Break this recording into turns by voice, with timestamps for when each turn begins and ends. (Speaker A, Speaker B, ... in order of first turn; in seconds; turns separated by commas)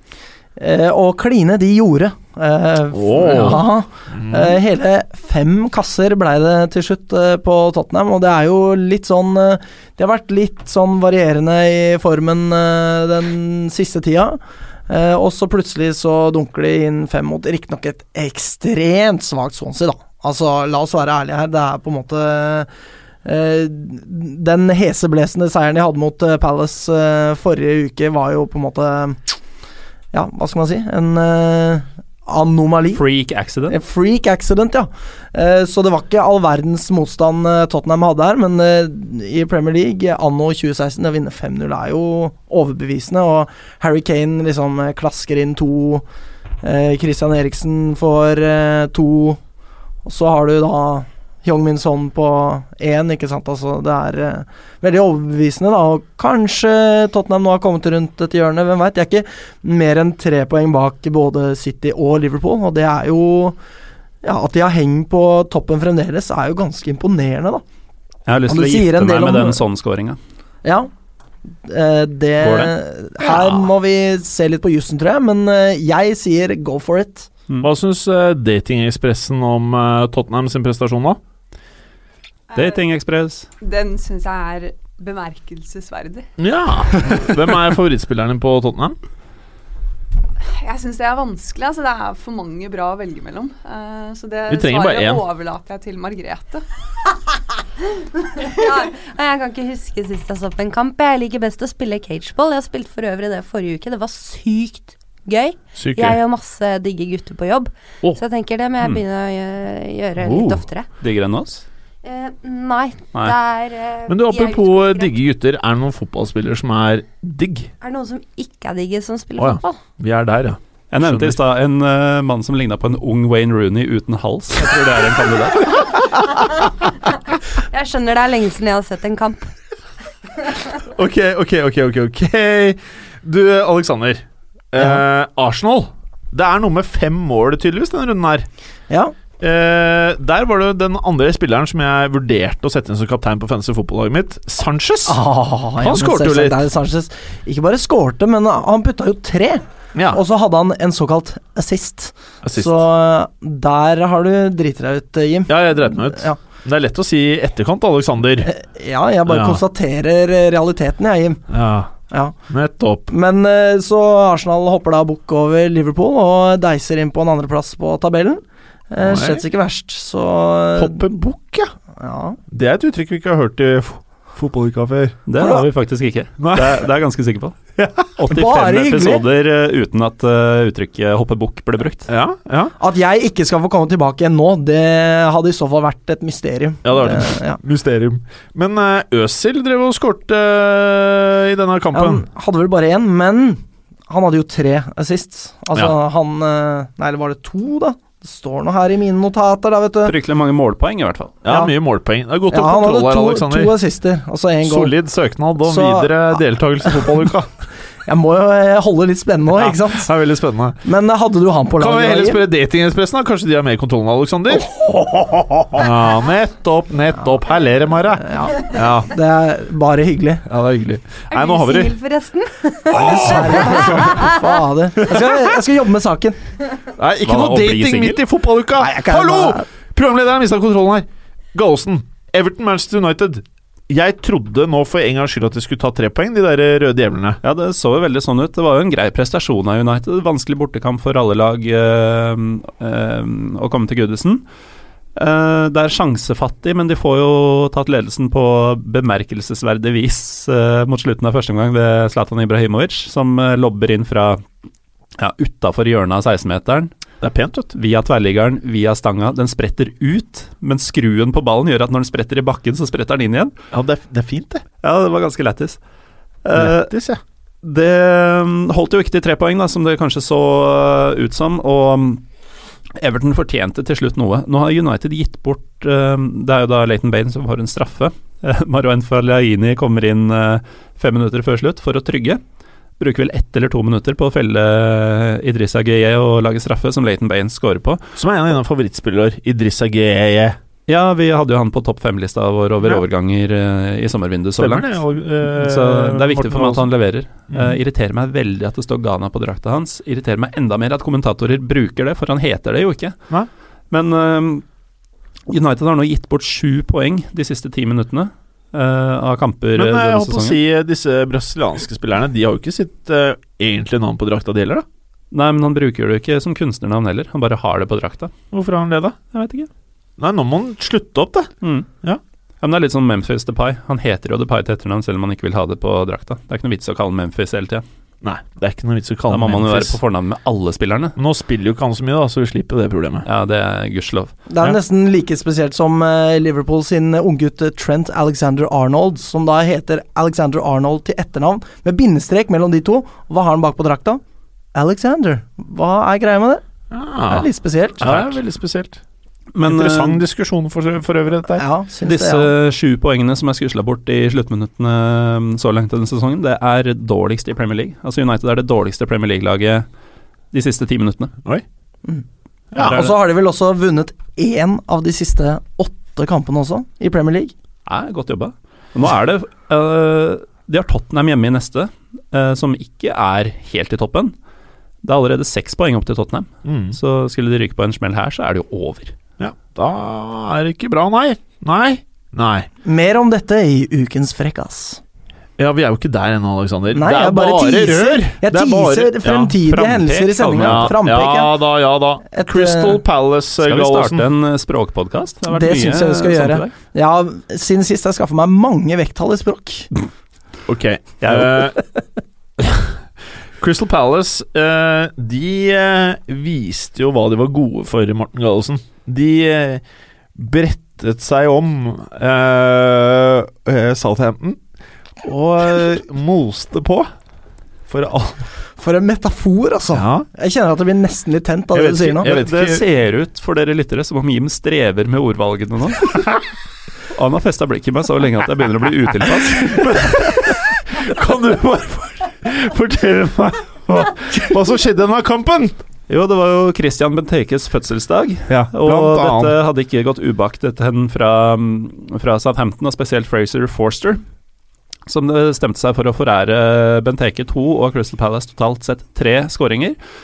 Speaker A: 0.6-22.7, Speaker B: 2.9-4.6, Speaker A: 23.2-29.2, Speaker A: 30.1-33.0, Speaker C: 32.9-33.7, Speaker A: 33.7-46.0, Speaker A: 46.6-49.4, Speaker A: 50.0-63.6, Speaker A: 64.2-67.6, Speaker C: 68.3-70.2, Speaker A: 68.5-69.6, Speaker A: 71.7-77.3, Speaker C: 72.4-72.7, Speaker C: 73.2-73.6, Speaker B: 77.6-81.2, Speaker D: 82.5-82.8, Speaker C: 82.5-83.5, Speaker D: 83.6-86.3, Speaker B: 86.4-89.0, Speaker D: 90.5-96.6, Speaker B: 94.5-95.2, Speaker E: 98.4-110.8, Speaker B: 105.8-106.2, Speaker B: 110.2-110.6, Speaker C: 111.0-111.6, Speaker E: 112.0-115.1, Speaker B: 114.1-117.7, Speaker E: 117.8-119.8, Speaker B: 119.4-121.4, Speaker C: 120.9-125.9, Speaker E: 126.2-126.7, Speaker E: 127.7-129.5, Speaker B: 130.9-138.5, Speaker B: 139.4-145.2, Speaker A: 145.1-156.4, Speaker B: 145.8-146.6, Speaker B: 149.9-150.2, Speaker B: 152.4-152.8, Speaker B: 155.5-158.5, Speaker A: 158.4-161.4, Speaker B: 159.2-159.6, Speaker B: 161.5-161.9, Speaker A: 162.1-162.3, Speaker B: 162.5-163.1, Speaker A: 163.1-171.1, Speaker B: 169.0-169.4, Speaker B: 170.8-171.7, Speaker A: 172.0-172.4, Speaker B: 172.5-175.2, Speaker C: 175.3-177.6, Speaker A: 175.3-175.7, Speaker B: 176.4-176.8, Speaker B: 177.8-178.1, Speaker A: 178.2-179.2, Speaker C: 178.2-182.1, Speaker B: 182.1-182.7, Speaker A: 182.8-187.6, Speaker B: 186.8-192.2, Speaker A: 191.9-200.1, Speaker C: 200.1-201.4, Speaker B: 201.4-203.7, Speaker A: 202.5-204.9, Speaker B: 204.6-207.5, Speaker A: 205.6-207.1, Speaker A: 208.1-210.1, Speaker B: 209.5-210.8, Speaker A: 210.8-212.4, Speaker B: 211.8-219.1, Speaker A: 218.2-220.4, Speaker B: 220.5-222.0, Speaker E: 221.3-224.4, Speaker A: 222.9-226.4, Speaker B: 222.9-224.0, Speaker B: 225.0-225.5, Speaker B: 226.9-237.4, Speaker C: 227.2-228.2, Speaker A: 228.8-229.7, Speaker C: 237.4-244.4, Speaker C: 245.2-254.4, Speaker C: 255.2-256.9, Speaker B: 257.2-257.7, Speaker C: 257.7-263.5, Speaker B: 263.7-264.6, Speaker C: 264.8-265.8, Speaker C: 266.4-266.9, Speaker B: 266.5-267.2, Speaker C: 267.6-272.2, Speaker C: 273.0-282.4, Speaker C: 283.0-288.0, Speaker B: 288.1-290.6, Speaker C: 290.9-303.1, Speaker B: 294.6-296.9, Speaker B: 297.5-297.8, Speaker C: 303.9-304.6, Speaker C: 305.5-310.6, Speaker B: 309.7-314.8, Speaker C: 315.3-318.3, Speaker B: 318.5-319.2, Speaker C: 319.3-319.7, Speaker B: 320.2-321.5, Speaker C: 321.6-321.9, Speaker C: 322.6-327.8, Speaker B: 328.2-330.0, Speaker C: 329.3-331.2, Speaker B: 331.2-333.2, Speaker C: 333.2-334.5, Speaker A: 334.5-344.2, Speaker A: 344.7-346.6, Speaker B: 346.9-347.5, Speaker A: 347.3-348.3, Speaker B: 348.0-349.0, Speaker C: 349.5-350.2, Speaker B: 349.6-351.6, Speaker A: 351.6-352.5, Speaker C: 352.0-359.9, Speaker C: 360.5-361.3, Speaker B: 362.7-363.0, Speaker C: 362.8-363.2, Speaker A: 362.8-367.5, Speaker C: 367.9-374.3, Speaker C: 375.0-379.1, Speaker B: 376.6-377.0, Speaker B: 379.4-382.7, Speaker A: 382.8-385.0, Speaker B: 385.6-389.6, Speaker A: 386.9-391.6, Speaker C: 389.6-391.0, Speaker B: 390.6-394.3, Speaker A: 392.3-393.0, Speaker C: 393.6-396.7, Speaker A: 395.5-399.9, Speaker B: 400.6-401.8, Speaker C: 401.2-401.8, Speaker B: 402.6-403.0, Speaker B: 403.6-409.8, Speaker B: 410.3-414.6, Speaker B: 415.2-417.1, Speaker B: 417.9-418.5, Speaker A: 418.8-422.3, Speaker B: 419.9-420.2, Speaker B: 421.7-422.8, Speaker C: 422.2-426.3, Speaker C: 427.1-430.5, Speaker B: 429.5-435.8, Speaker C: 436.1-444.2, Speaker B: 438.5-439.6, Speaker C: 445.1-449.9